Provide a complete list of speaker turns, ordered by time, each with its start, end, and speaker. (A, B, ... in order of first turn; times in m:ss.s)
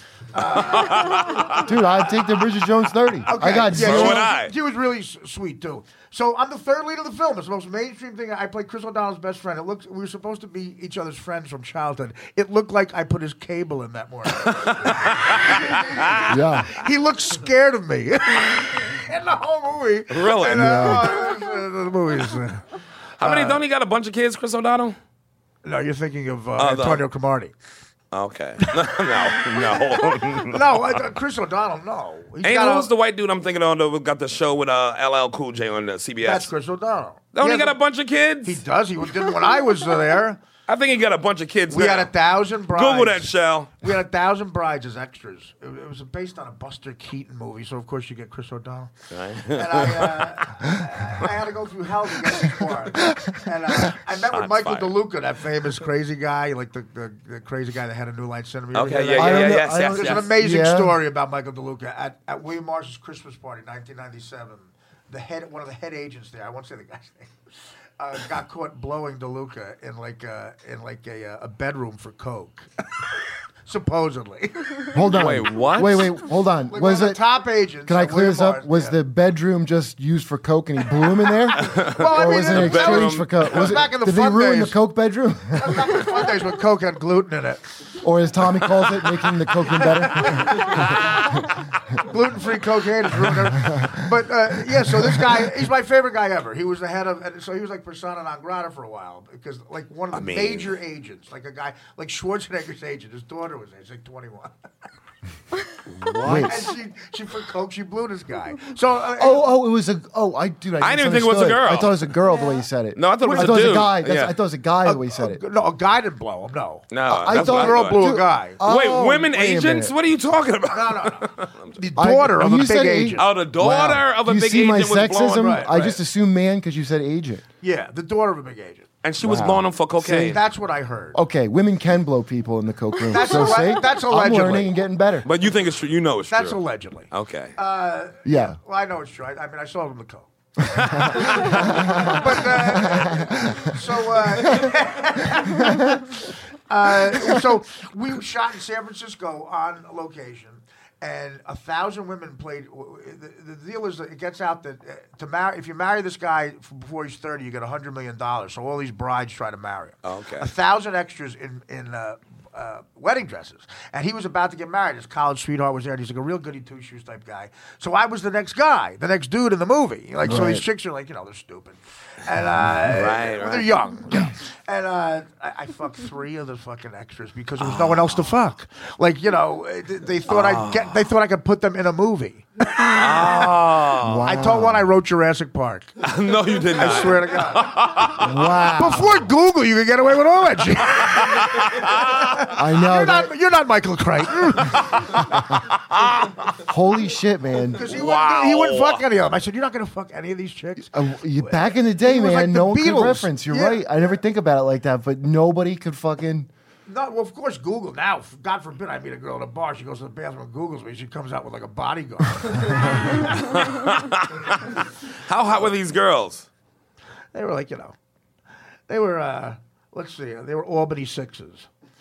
0:00.3-0:01.6 A
0:00.6-0:01.6 B
0:01.6-0:04.2 C
0:03.2-0:22.6 A
0:03.7-0:04.5 B
0:14.5-0:16.1 B
0:16.3-0:16.7 C
0:20.1-0:20.9 B
0:20.5-0:21.1 C
0:23.2-0:25.0 B
0:23.2-0:23.6 A
0:25.6-0:27.5 A
0:26.6-0:27.0 B
0:28.1-0:31.0 B
0:30.4-0:32.9 A
0:32.4-0:36.5 B
0:36.2-0:37.8 A
0:37.3-0:38.6 B
0:38.4-0:40.4 A
0:40.7-0:42.1 B
0:41.7-1:07.3 A
0:42.7-0:43.7 B
0:49.1-0:50.3 B
0:54.3-0:54.9 B
0:58.7-1:00.3 B
0:59.1-1:01.0 C
1:08.0-1:12.7 A
1:13.6-1:15.0 A
1:14.9-1:17.2 C
1:15.1-1:16.2 B
1:16.7-1:19.0 A
1:17.8-1:26.0 C
1:21.6-1:23.7 B
1:21.8-1:24.7 A
1:25.6-1:27.6 A
1:28.0-1:30.9 C
1:30.2-1:31.4 A
1:31.9-1:44.5 A
1:33.7-1:33.9 C
1:40.1-1:40.7 B
1:46.0-1:46.7 C
1:46.2-1:49.5 A
1:49.2-1:55.4 C
1:50.8-1:52.1 B
1:52.9-1:54.3 B
1:53.2-1:53.9 A
1:54.8-1:58.6 A
1:56.9-1:58.0 B
1:57.1-1:59.9 C
1:58.6-2:01.7 B
2:00.7-2:03.3 A
2:02.0-2:07.4 C
2:03.2-2:05.6 B
2:05.4-2:06.0 A
2:07.6-2:08.9 A
2:09.0-2:10.4 B
2:09.2-2:09.6 C
2:10.0-2:11.2 A
2:11.1-2:15.3 C
2:13.1-2:14.7 A
2:15.2-2:16.6 B
2:16.3-2:20.3 A
2:17.1-2:17.5 B
2:18.2-2:18.6 C
2:20.7-2:21.6 B
2:20.8-2:23.8 C
2:21.3-3:03.5 A
2:25.4-2:25.9 C
2:27.1-2:27.4 C
2:40.0-2:40.5 B
2:50.2-2:50.6 C
2:52.8-2:53.7 B
2:57.6-2:58.3 B
3:00.3-3:01.0 B
3:02.9-3:04.4 B
3:04.0-3:04.9 C
3:04.2-3:05.9 A
3:06.0-3:08.3 B
3:06.7-3:08.1 A
3:08.2-3:09.2 C
3:08.8-3:15.2 A
3:11.4-3:12.3 B
3:12.5-3:13.3 C
3:15.9-3:16.3 B
3:16.6-3:17.8 C
3:17.7-3:23.9 A
3:17.9-3:19.0 B
3:20.9-3:26.5 C
3:26.8-3:33.4 A
3:33.3-3:34.6 B
3:35.3-3:36.5 B
3:37.3-3:37.9 A
3:38.9-3:41.7 A